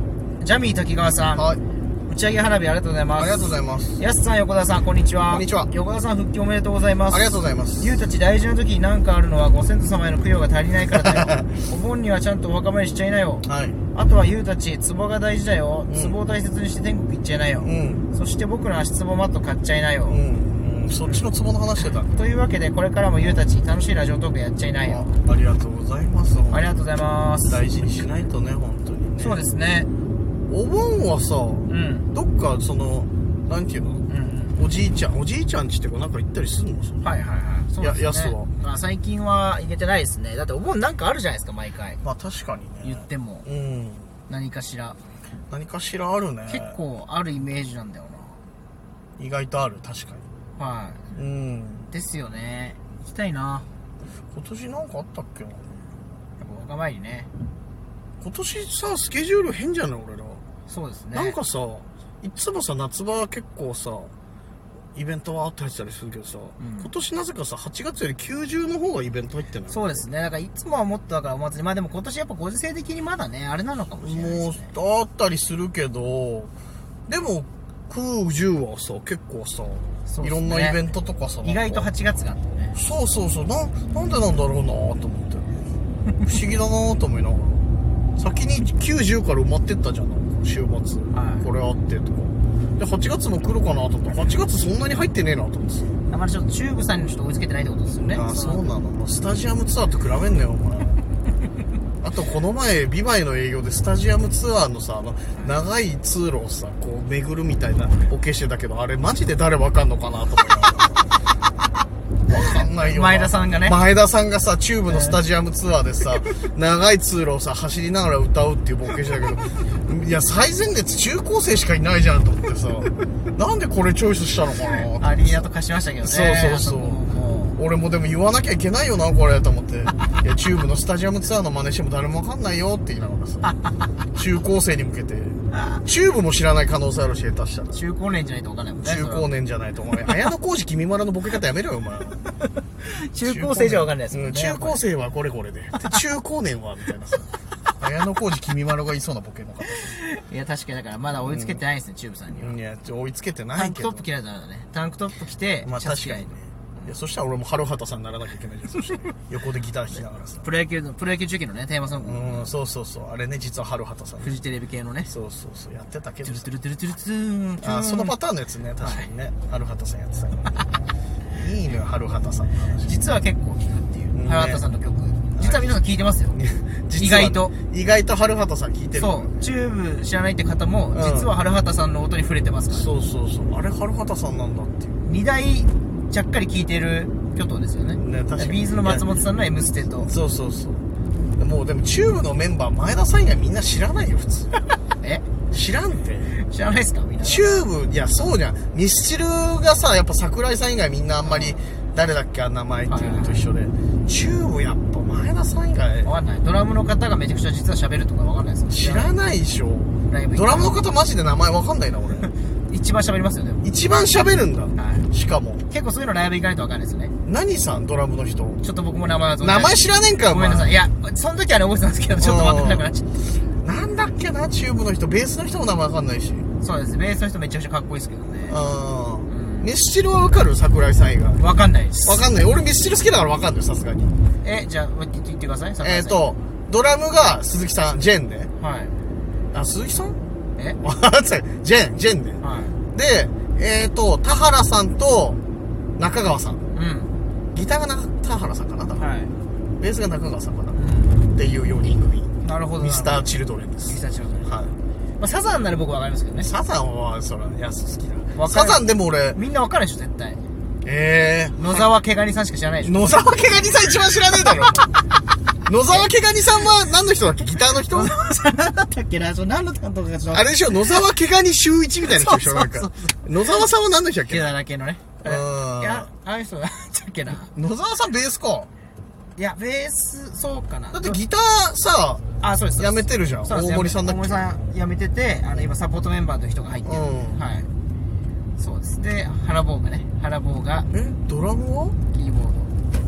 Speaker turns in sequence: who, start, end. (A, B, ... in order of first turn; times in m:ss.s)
0:00.4-0:01.5 A
0:01.4-0:01.6 B
0:02.1-0:20.2 A
0:03.2-0:04.0 B
0:05.3-0:05.7 B
0:07.1-0:08.0 B
0:11.0-0:11.5 B
0:13.4-0:13.8 B
0:15.9-0:16.2 B
0:17.6-0:18.0 B
0:20.1-0:22.2 B
0:22.1-0:25.1 A
0:24.8-0:26.7 B
0:26.5-0:27.6 A
0:27.5-0:29.4 B
0:29.2-0:29.9 A
0:30.5-0:34.0 B
0:31.7-0:32.1 A
0:34.1-0:34.6 A
0:34.6-0:37.0 B
0:37.0-0:42.0 A
0:37.8-0:38.5 B
0:42.0-0:44.1 B
0:42.8-0:43.5 A
0:44.3-0:45.0 A
0:45.5-0:46.7 B
0:46.5-0:48.4 A
0:49.2-0:50.3 B
0:50.6-0:51.1 A
0:51.1-0:51.9 B
0:51.9-0:53.7 A
0:54.3-0:55.8 B
0:56.4-0:57.3 A
0:58.2-1:00.4 B
1:00.7-1:01.4 A
1:01.1-1:04.1 B
1:04.9-1:10.1 B
1:06.6-1:06.9 A
1:09.7-1:14.7 A
1:14.0-1:16.5 B
1:17.1-1:21.9 B
1:20.1-1:20.8 A
1:21.4-1:22.8 A
1:22.7-1:25.6 B
1:26.2-1:35.9 B
1:31.1-1:31.5 A
1:36.1-1:38.6 A
1:38.1-1:41.0 B
1:42.0-1:51.1 B
1:52.3-2:05.5 B
1:52.3-1:53.8 A
1:54.9-1:55.2 A
2:04.6-2:07.6 A
2:06.0-2:13.5 B
2:14.1-2:17.8 B
2:17.7-2:19.3 A
2:18.8-2:22.2 B
2:22.4-2:24.8 A
2:23.2-2:30.0 B
2:29.8-2:32.6 A
2:31.2-2:31.6 B
2:32.3-2:34.0 B
2:33.5-2:36.9 A
2:35.6-2:40.5 B
2:40.4-2:42.5 A
2:42.0-2:44.4 B
2:44.2-2:45.1 A
2:45.1-2:46.5 B
2:46.2-2:48.2 A
2:47.6-2:50.7 B
2:48.8-2:49.1 A
2:51.3-2:53.0 B
2:52.8-2:56.4 A
2:54.1-2:54.7 B
2:55.3-2:55.7 B
2:56.3-2:59.5 B
2:57.0-2:57.5 A
2:59.0-3:02.9 A
3:00.9-3:01.3 B
3:02.7-3:05.0 B
3:05.0-3:10.1 A
3:08.0-3:09.1 B
3:10.0-3:10.8 B
3:11.4-3:14.6 B
3:15.0-3:15.3 A
3:15.4-3:16.3 B
3:16.3-3:17.7 A
3:17.2-3:26.1 B
3:21.2-3:21.6 A
3:22.9-3:23.4 A
3:26.0-3:29.1 A
3:28.7-3:32.3 B
3:30.1-3:30.7 A
3:32.7-3:33.6 A
3:33.6-3:35.6 B
3:34.8-3:35.1 A
3:35.7-3:37.1 A
3:37.2-3:38.6 B
3:38.6-3:43.2 A
3:39.4-3:40.8 B
3:42.2-3:42.9 B
3:43.6-3:46.5 B
3:46.6-3:48.6 A
3:48.5-3:51.4 B
3:49.3-3:49.7 A
3:51.4-3:52.2 A
3:52.0-3:54.2 B
3:54.4-3:56.2 A
3:55.8-3:58.5 B
3:58.6-3:59.0 A
3:59.5-4:00.2 B
4:00.8-4:05.4 B
4:02.4-4:02.8 A
4:06.0-4:06.6 B
4:06.7-4:07.1 A
4:07.5-4:09.1 B
4:09.0-4:09.3 A
4:09.8-4:14.7 B
4:10.8-4:11.2 A
4:12.4-4:13.3 A
4:13.8-4:14.5 A
4:15.2-4:16.5 A
4:16.4-4:19.4 B
4:18.4-4:18.8 A
4:19.3-4:20.4 A
4:20.8-4:21.9 B
4:21.6-4:23.3 A
4:22.8-4:24.9 B
4:25.7-4:28.2 B
4:27.9-4:31.0 A
4:30.3-4:34.5 B
4:32.1-4:33.6 A
4:34.3-4:37.5 A
4:35.2-4:36.1 B
4:37.4-4:38.7 B
4:39.4-4:41.2 A
4:40.9-4:44.6 B
4:42.4-4:47.7 A
4:46.8-4:47.4 B
4:48.6-4:50.9 A
4:50.9-4:52.0 B
4:52.1-4:52.7 A